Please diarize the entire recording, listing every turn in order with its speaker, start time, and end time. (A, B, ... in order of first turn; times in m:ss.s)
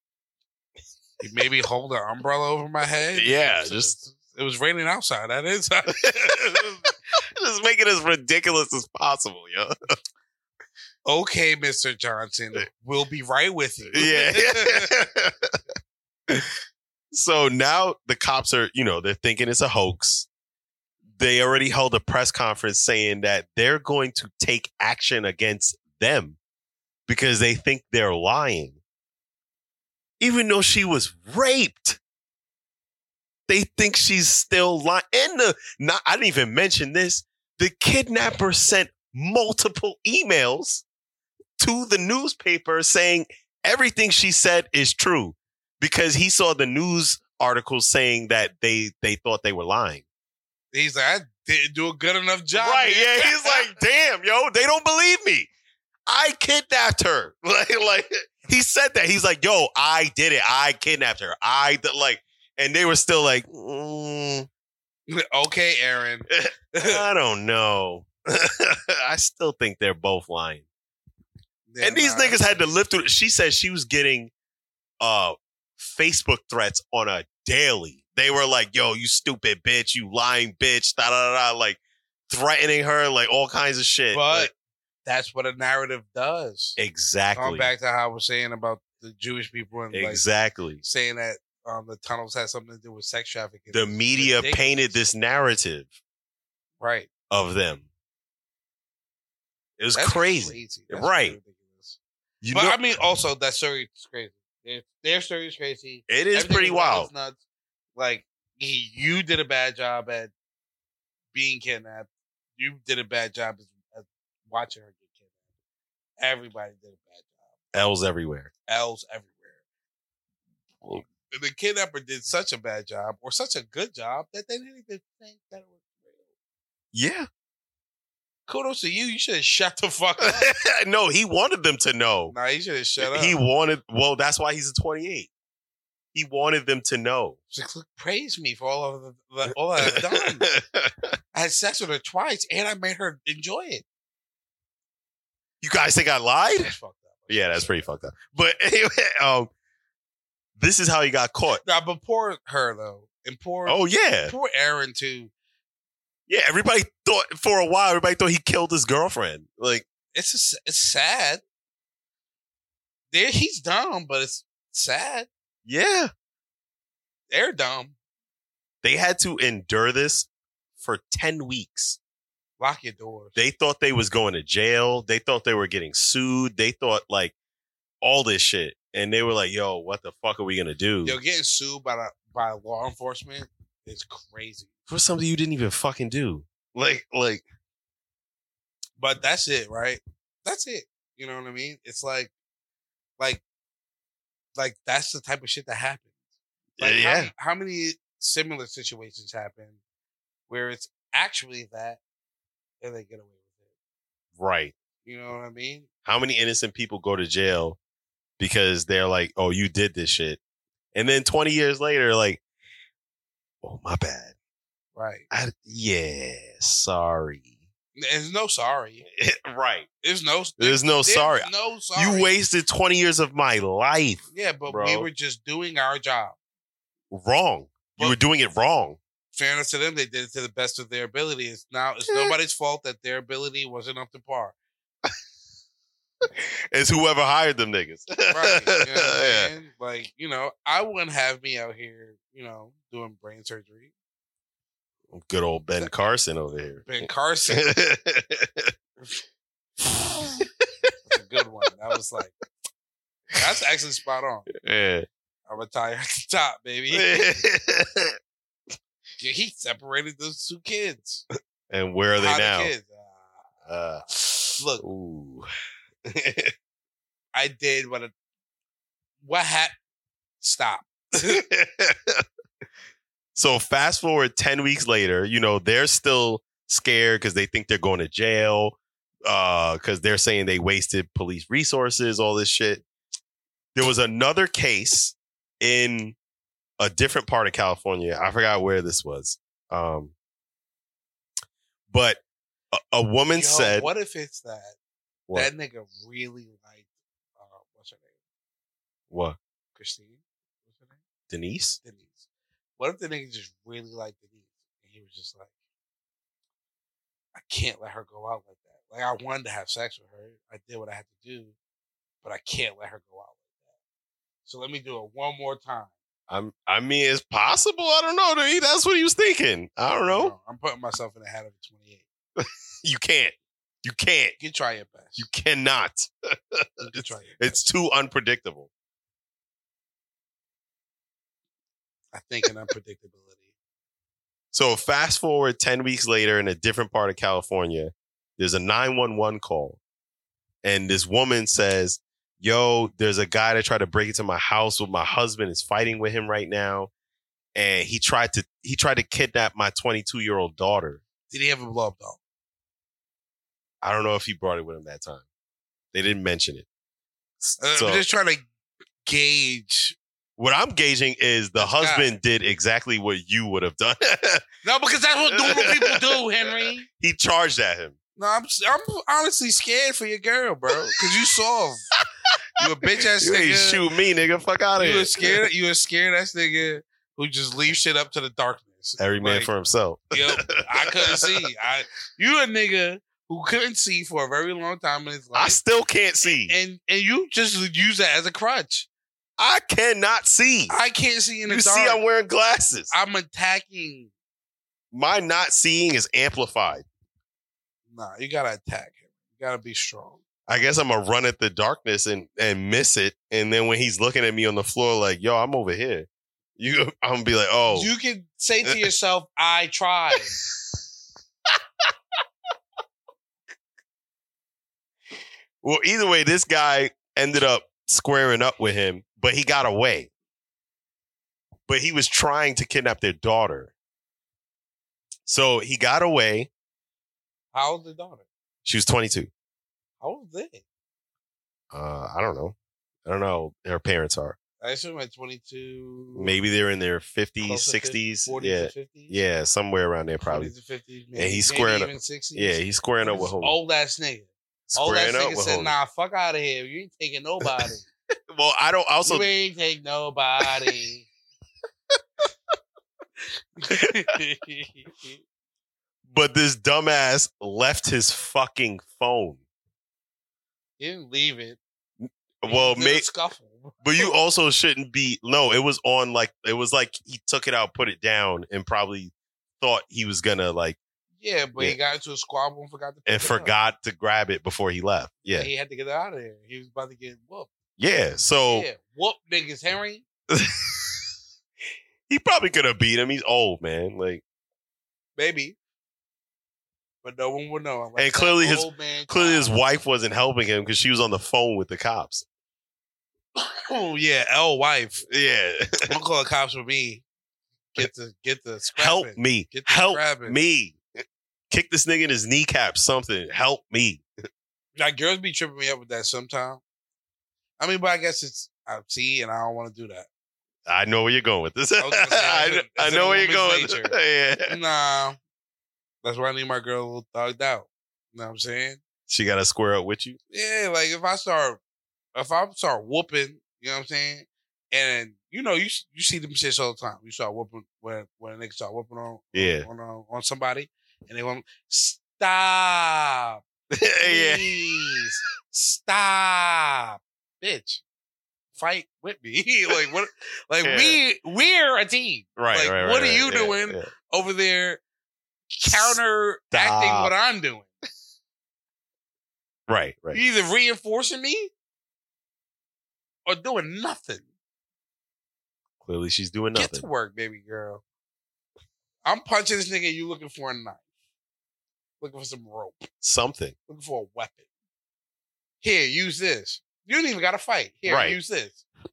0:01.2-0:06.9 A
0:03.1-0:03.9 B
0:05.9-0:06.7 B
0:07.4-0:09.7 B
0:11.1-0:15.0 A
0:13.9-0:15.5 B
0:16.3-0:16.5 B
0:17.1-0:20.3 B
0:21.2-0:26.4 B
0:27.1-0:28.8 B
0:30.2-0:32.0 B
0:33.5-0:40.8 B
0:41.6-0:50.0 B
0:50.7-0:53.7 A
0:52.6-0:55.5 B
0:56.1-1:04.5 B
1:05.1-1:07.0 A
1:06.3-1:10.7 B
1:11.7-1:12.7 A
1:11.8-1:14.3 B
1:15.0-1:24.5 B
1:24.1-1:24.5 A
1:25.0-1:26.8 A
1:26.8-1:27.7 B
1:27.3-1:30.2 A
1:29.9-1:30.8 B
1:30.8-1:35.0 A
1:33.7-1:35.9 B
1:36.8-1:37.1 A
1:37.3-1:37.9 B
1:39.8-1:41.4 B
1:40.0-1:42.0 A
1:42.4-1:42.9 B
1:42.5-1:47.4 A
1:46.1-1:47.1 B
1:48.0-1:50.3 A
1:51.3-1:55.0 A
1:56.2-1:57.3 A
1:57.7-1:58.5 B
1:58.7-1:59.6 A
2:00.8-2:06.2 A
2:06.9-2:07.3 B
2:08.5-2:10.5 A
2:10.2-2:12.4 B
2:12.3-2:13.4 A
2:13.0-2:15.3 B
2:16.1-2:17.4 B
2:17.5-2:20.5 A
2:19.8-2:21.1 B
2:21.3-2:23.8 A
2:25.6-2:26.7 B
2:26.6-2:27.8 A
2:27.3-2:29.5 B
2:30.6-2:31.6 B
2:31.6-2:35.3 A
2:33.7-2:34.4 B
2:36.3-2:39.9 B
2:40.1-2:41.4 A
2:43.1-2:45.3 A
2:45.7-2:46.1 B
2:47.3-2:48.0 A
2:48.8-2:50.3 B
2:50.8-2:52.0 B
2:52.6-2:53.4 A
2:53.4-2:57.3 B
2:58.0-3:01.2 B
3:01.0-3:04.7 A
3:04.9-3:07.4 B
3:09.0-3:12.3 A
3:14.6-3:16.1 A
3:16.8-3:17.3 B
3:16.8-3:19.8 A
3:20.5-3:22.0 A
3:22.8-3:23.4 A
3:24.4-3:24.7 B
3:25.0-3:25.9 A
3:26.0-3:27.8 B
3:28.4-3:30.4 B
3:30.9-3:32.4 B
3:33.6-3:34.3 B
3:35.0-3:35.2 A
3:35.3-3:37.4 B
3:38.0-3:39.0 A
3:39.1-3:39.9 B
3:40.0-3:42.3 A
3:40.6-3:45.1 B
3:44.3-3:46.4 A
3:47.1-3:49.0 B
3:49.3-3:54.6 A
3:52.1-3:52.3 B
3:56.4-3:59.5 B
3:58.3-4:03.9 A
4:05.1-4:08.7 B
4:06.8-4:07.8 A
4:09.9-4:10.5 B
4:11.1-4:12.4 A
4:13.4-4:14.5 A
4:14.6-4:15.1 B
4:15.5-4:17.3 A
4:16.9-4:18.1 B
4:19.2-4:21.2 A
4:21.7-4:22.7 B
4:22.2-4:23.4 A
4:23.7-4:25.5 B
4:24.6-4:24.8 A
4:26.1-4:26.5 B
4:27.3-4:28.1 A
4:29.2-4:29.7 A
4:30.4-4:31.4 A
4:31.2-4:32.2 B
4:33.4-4:42.8 B
4:43.8-4:46.2 B
4:46.8-4:50.1 B
4:51.9-4:53.9 B
4:53.3-4:54.8 A
4:55.3-4:56.8 A
4:57.4-4:58.1 A
4:59.1-4:59.4 B
4:59.8-5:01.0 A
5:01.3-5:01.8 B
5:01.8-5:02.3 A
5:02.8-5:05.5 A
5:07.4-5:11.6 A
5:12.2-5:13.5 A
5:14.4-5:15.9 A
5:16.3-5:20.3 B
5:20.0-5:22.0 A
5:22.4-5:24.4 B
5:24.4-5:25.3 A
5:25.2-5:28.7 B
5:26.8-5:27.6 A
5:32.1-5:33.5 A
5:34.5-5:39.8 B
5:40.6-5:46.9 B
5:47.6-5:51.0 B
5:51.3-5:52.2 A
5:53.8-5:55.2 B
5:55.9-5:56.7 B
5:57.4-5:58.0 B
5:57.6-5:58.4 A
5:59.0-6:00.0 A
6:00.4-6:04.4 B
6:01.6-6:02.1 A
6:04.6-6:06.9 A
6:05.4-6:06.2 B
6:06.9-6:08.0 B
6:08.2-6:11.9 A
6:12.6-6:13.8 A
6:13.2-6:15.4 B
6:14.8-6:19.5 A
6:19.0-6:21.3 B
6:20.1-6:25.6 A
6:25.4-6:26.6 B
6:26.5-6:28.9 A
6:29.4-6:30.8 B
6:30.7-6:32.0 A
6:31.5-6:32.9 B
6:32.9-6:34.1 A
6:34.9-6:36.8 B
6:37.9-6:40.2 A
6:40.5-6:47.9 B
6:47.7-6:50.4 A
6:55.6-7:00.1 B
7:01.7-7:03.7 B
7:05.3-7:06.5 B
7:07.5-7:08.3 A
7:08.6-7:09.3 B
7:10.0-7:10.6 A
7:11.7-7:14.4 B
7:14.6-7:16.4 A
7:16.2-7:20.5 B
7:17.4-7:19.2 A
7:20.2-7:27.9 A
7:21.2-7:23.6 B
7:24.7-7:25.8 B
7:28.3-7:29.3 B
7:29.0-7:31.1 A
7:30.4-7:30.7 B
7:33.6-7:35.2 A
7:36.1-7:39.4 B
7:40.8-7:41.6 A
7:42.0-7:43.1 B
7:42.4-7:44.1 A
7:43.8-7:50.8 B
7:51.2-7:53.5 A
7:53.1-7:55.5 B
7:55.3-7:57.5 A
7:57.8-7:58.7 B
7:58.5-8:00.0 A
8:00.3-8:01.0 B
8:02.1-8:04.2 B
8:05.2-8:05.6 A
8:07.0-8:09.5 A
8:08.0-8:12.2 B
8:13.4-8:15.1 A
8:15.1-8:15.9 B
8:15.9-8:17.0 A
8:17.7-8:20.4 A
8:18.8-8:20.8 B
8:21.5-8:24.0 B
8:24.8-8:26.6 A
8:27.6-8:30.1 A
8:30.7-8:34.6 B
8:31.8-8:34.0 A
8:34.5-8:35.2 A
8:36.0-8:38.8 A
8:39.1-8:40.2 B
8:40.3-8:41.6 A
8:42.2-8:53.4 A
8:49.3-8:49.7 B
8:53.7-8:55.2 B
8:54.0-8:57.8 A
8:58.6-9:04.8 A
9:00.6-9:01.0 B
9:02.4-9:03.9 B
9:05.5-9:07.7 A
9:05.7-9:06.0 B
9:06.5-9:07.1 B
9:09.7-9:10.2 B
9:10.1-9:11.5 A
9:13.3-9:14.2 A
9:15.8-9:16.9 B
9:16.6-9:17.8 A
9:19.0-9:20.8 A
9:22.0-9:22.9 A
9:23.0-9:23.6 B
9:23.7-9:24.4 A
9:25.6-9:28.6 A
9:27.9-9:28.2 B